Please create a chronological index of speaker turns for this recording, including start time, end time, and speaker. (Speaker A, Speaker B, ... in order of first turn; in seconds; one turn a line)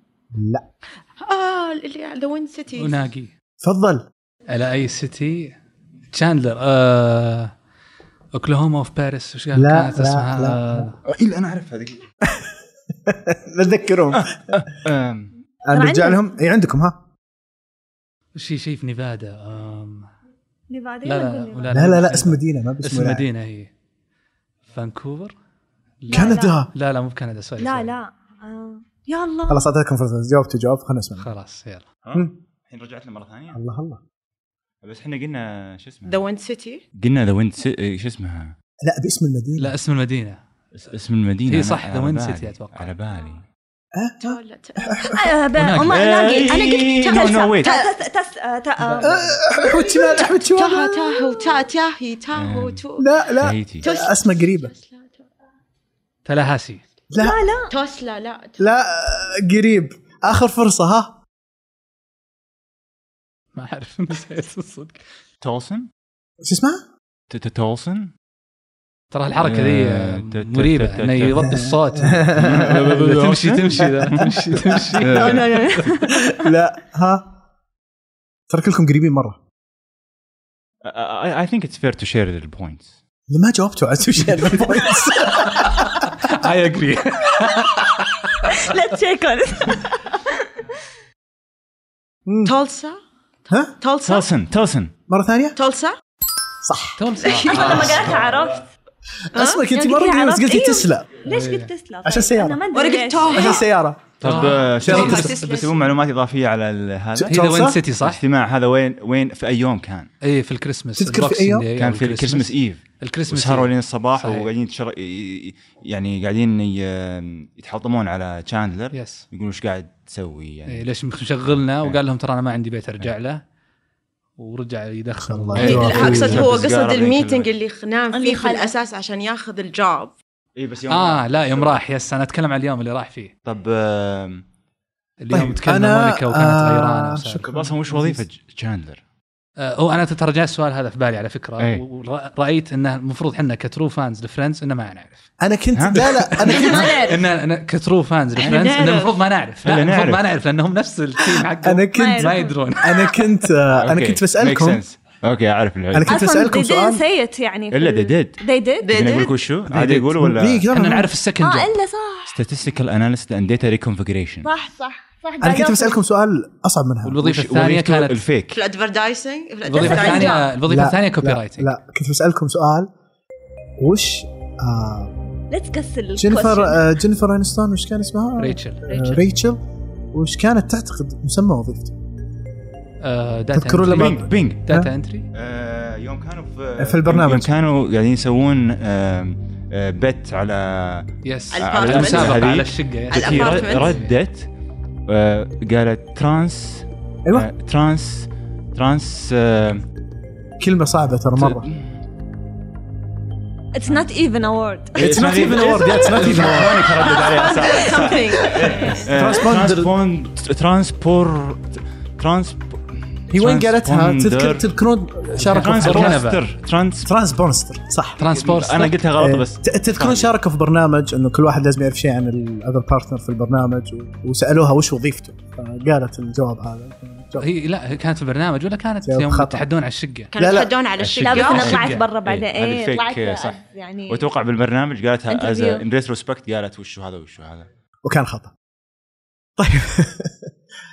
Speaker A: 0.3-0.7
Speaker B: 1.2-3.0
Speaker C: 2.8-3.4
Speaker A: 3.6-4.1
Speaker C: 4.5-5.6
Speaker C: 6.1-7.5
Speaker C: 8.3-11.0
Speaker A: 9.5-10.9
Speaker D: 11.1-12.1
Speaker A: 12.2-12.5
Speaker A: 13.1-14.6
Speaker D: 14.1-15.3
Speaker A: 15.7-17.0
Speaker E: 15.7-16.2
Speaker C: 18.4-20.1
Speaker E: 20.7-21.8
Speaker C: 21.1-23.7
Speaker A: 21.7-23.3
Speaker C: 24.7-25.3
Speaker C: 26.0-27.9
Speaker E: 26.1-26.6
Speaker A: 26.1-26.7
Speaker E: 27.6-29.7
Speaker A: 29.5-31.3
Speaker C: 31.2-31.9
Speaker D: 32.0-33.6
Speaker A: 33.5-34.0
Speaker D: 34.8-36.2
Speaker B: 36.1-36.8
Speaker D: 37.0-38.5
Speaker A: 38.8-39.7
Speaker C: 39.6-40.4
Speaker D: 40.7-43.4
Speaker C: 41.5-42.9
Speaker A: 44.0-45.3
Speaker B: 44.2-45.2
Speaker E: 45.1-51.6
Speaker C: 45.5-46.0
Speaker D: 45.9-47.7
Speaker B: 46.4-47.9
Speaker C: 48.8-49.4
Speaker A: 49.0-50.9
Speaker B: 50.5-53.1
Speaker D: 52.3-52.8
Speaker A: 53.0-54.7
Speaker D: 53.4-53.9
Speaker B: 53.8-55.2
Speaker C: 56.2-56.8
Speaker A: 57.1-57.4
Speaker E: 57.2-57.7
Speaker B: 57.7-58.6
Speaker A: 58.6-61.2
Speaker C: 63.5-65.0
Speaker D: 65.4-65.9
Speaker A: 66.4-66.8
Speaker D: 67.3-68.1
Speaker C: 69.1-75.8
Speaker D: 69.4-71.6
Speaker A: 71.5-73.0
Speaker D: 72.3-74.4
Speaker D: 75.0-75.7
Speaker E: 75.1-76.5
Speaker A: 75.1-77.3
Speaker A: 78.5-79.4
Speaker D: 80.8-82.9
Speaker A: 83.3-85.9
Speaker C: 85.3-88.7
Speaker E: 88.4-90.5
Speaker A: 92.3-92.5
Speaker B: 92.5-93.0
Speaker B: 93.8-94.3
Speaker D: 94.0-94.9
Speaker A: 95.1-95.6
Speaker B: 95.6-96.0
Speaker A: 96.6-97.0
Speaker C: 97.0-98.2
Speaker E: 97.3-98.7
Speaker B: 97.3-97.6
Speaker A: 99.3-101.2
Speaker B: 99.3-100.0
Speaker E: 99.9-103.6
Speaker C: 101.2-101.7
Speaker A: 102.0-102.6
Speaker B: 102.7-103.7
Speaker A: 103.3-105.3
Speaker C: 104.2-105.3
Speaker D: 104.2-107.4
Speaker B: 104.3-105.9
Speaker A: 107.2-107.8
Speaker C: 107.3-108.2
Speaker D: 108.0-110.1
Speaker C: 110.2-114.5
Speaker A: 111.0-111.7
Speaker D: 111.8-120.8
Speaker C: 118.9-119.3
Speaker C: 120.7-123.4
Speaker C: 124.4-126.2
Speaker A: 125.2-126.5
Speaker D: 125.6-127.5
Speaker B: 125.6-130.2
Speaker E: 128.1-128.7
Speaker D: 130.6-131.8
Speaker C: 130.9-133.3
Speaker D: 133.4-134.4
Speaker C: 135.2-137.4
Speaker A: 135.3-138.2
Speaker D: 137.4-139.0
Speaker C: 139.6-145.3
Speaker A: 145.4-147.1
Speaker D: 145.8-146.1
Speaker E: 146.4-147.2
Speaker C: 146.6-153.1
Speaker B: 148.4-149.2
Speaker D: 148.4-148.9
Speaker D: 149.6-150.2
Speaker A: 151.3-154.8
Speaker E: 151.9-152.7
Speaker D: 153.8-156.2
Speaker A: 155.9-157.0
Speaker E: 156.1-159.2
Speaker D: 157.7-158.4
Speaker B: 158.8-159.4
Speaker D: 158.9-160.6
Speaker A: 159.7-161.1
Speaker C: 160.7-161.7
Speaker E: 161.4-162.4
Speaker D: 162.3-164.5
Speaker E: 164.4-166.0
Speaker A: 165.4-167.2
Speaker C: 167.0-168.2
Speaker D: 167.2-168.6
Speaker B: 168.5-170.5
Speaker C: 169.7-171.7
Speaker E: 169.9-170.5
Speaker A: 170.7-172.9
Speaker A: 173.8-175.2
Speaker E: 175.5-176.9
Speaker A: 176.2-179.6
Speaker C: 178.4-179.2
Speaker A: 180.1-181.9
Speaker C: 183.0-185.3
Speaker A: 183.5-184.9
Speaker D: 183.9-184.6
Speaker D: 185.3-194.5
Speaker A: 186.8-187.5
Speaker C: 191.2-194.1
Speaker B: 191.5-192.4
Speaker B: 193.1-194.0
Speaker D: 195.1-199.8
Speaker A: 200.6-201.7
Speaker D: 201.4-201.9
Speaker E: 203.8-205.1
Speaker A: 204.9-207.0
Speaker D: 205.0-214.7
Speaker E: 205.9-206.7
Speaker B: 207.0-209.4
Speaker E: 207.4-208.8
Speaker A: 208.9-209.9
Speaker A: 213.3-216.2
Speaker C: 215.3-216.4
Speaker D: 215.5-217.1
Speaker A: 217.1-218.2
Speaker C: 218.2-219.0
Speaker D: 218.3-220.3
Speaker A: 219.2-227.5
Speaker C: 227.4-230.3
Speaker A: 229.0-229.7
Speaker B: 230.3-231.8
Speaker A: 230.3-230.7
Speaker D: 231.0-237.7
Speaker E: 231.2-234.3
Speaker C: 231.5-232.1
Speaker E: 235.3-235.8
Speaker A: 238.1-238.5
Speaker A: 239.6-240.5